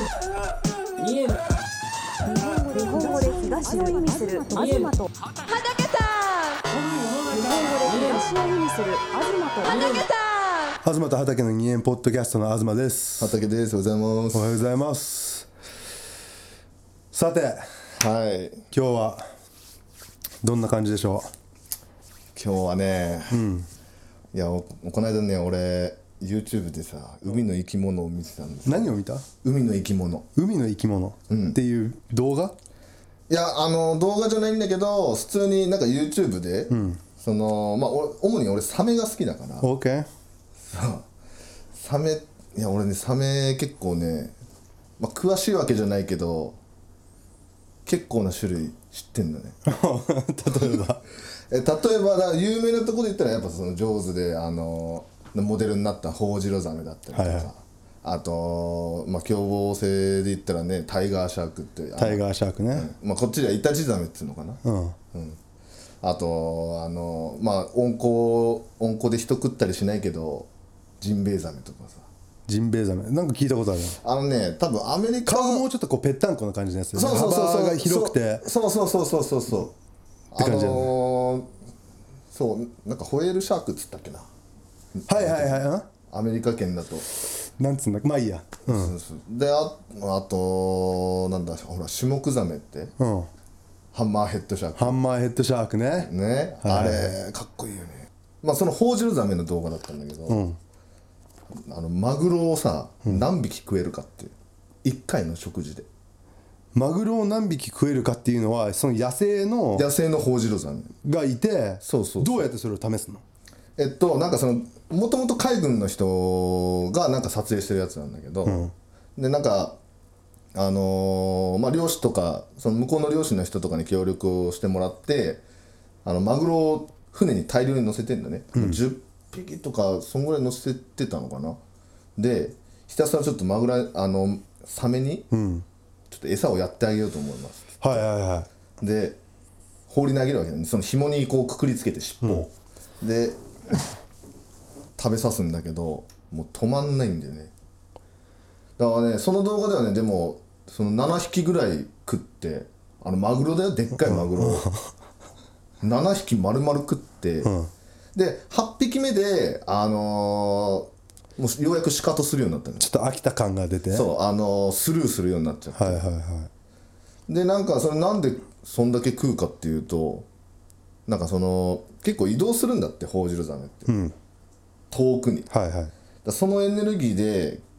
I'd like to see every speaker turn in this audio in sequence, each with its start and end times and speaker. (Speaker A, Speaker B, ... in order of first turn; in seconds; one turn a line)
Speaker A: 2.3-5.1
Speaker A: 7.3-10.0
Speaker B: 10.8-13.4
Speaker C: 13.2-14.5
Speaker B: 14.3-15.5
Speaker B: 17.1-17.6
Speaker C: 18.0-18.6
Speaker B: 18.7-19.3
Speaker B: 20.4-21.3
Speaker C: 22.4-23.4
Speaker B: 23.3-23.7
Speaker C: 24.3-30.3
Speaker B: 28.7-29.3
Speaker B: 30.4-32.6
Speaker C: 31.3-31.6
Speaker C: 33.3-39.7
Speaker B: 36.7-37.0
Speaker B: 39.6-40.1
Speaker C: 40.6-41.1
Speaker C: 41.8-44.4
Speaker C: 45.0-46.6
Speaker C: 47.9-49.6
Speaker B: 49.7-51.0
Speaker C: 51.5-64.6
Speaker B: 57.1-57.5
Speaker B: 62.0-62.9
Speaker B: 64.6-65.0
Speaker C: 65.1-65.4
Speaker C: 66.0-70.5
Speaker C: 71.0-72.1
Speaker B: 72.5-74.0
Speaker C: 73.9-75.7
Speaker B: 75.3-78.5
Speaker C: 76.9-79.7
Speaker C: 80.3-81.5
Speaker B: 80.4-80.9
Speaker C: 82.3-84.3
Speaker C: 85.0-87.1
Speaker B: 85.1-85.9
Speaker B: 87.6-88.9
Speaker C: 88.7-92.9
Speaker B: 93.0-93.3
Speaker C: 93.9-95.0
Speaker B: 94.8-96.1
Speaker C: 96.0-100.4
Speaker B: 96.6-97.2
Speaker B: 100.3-100.6
Speaker C: 101.7-105.9
Speaker B: 106.8-109.9
Speaker C: 109.7-110.9
Speaker B: 111.0-113.2
Speaker C: 111.8-112.5
Speaker C: 113.8-119.8
Speaker B: 118.5-118.7
Speaker C: 120.5-125.4
Speaker C: 126.0-131.6
Speaker C: 132.2-135.3
Speaker B: 135.3-135.7
Speaker C: 136.1-138.1
Speaker B: 137.8-138.5
Speaker C: 138.8-139.2
Speaker C: 139.9-142.5
Speaker C: 143.0-143.8
Speaker C: 145.0-147.5
Speaker C: 148.8-154.7
Speaker B: 154.0-154.9
Speaker C: 155.8-157.5
Speaker B: 157.4-157.7
Speaker C: 158.1-162.9
Speaker B: 162.8-164.1
Speaker C: 163.9-166.0
Speaker B: 165.8-166.5
Speaker C: 167.3-170.3
Speaker C: 171.1-173.9
Speaker B: 173.9-174.2
Speaker C: 174.9-175.5
Speaker B: 175.5-175.9
Speaker C: 176.2-177.6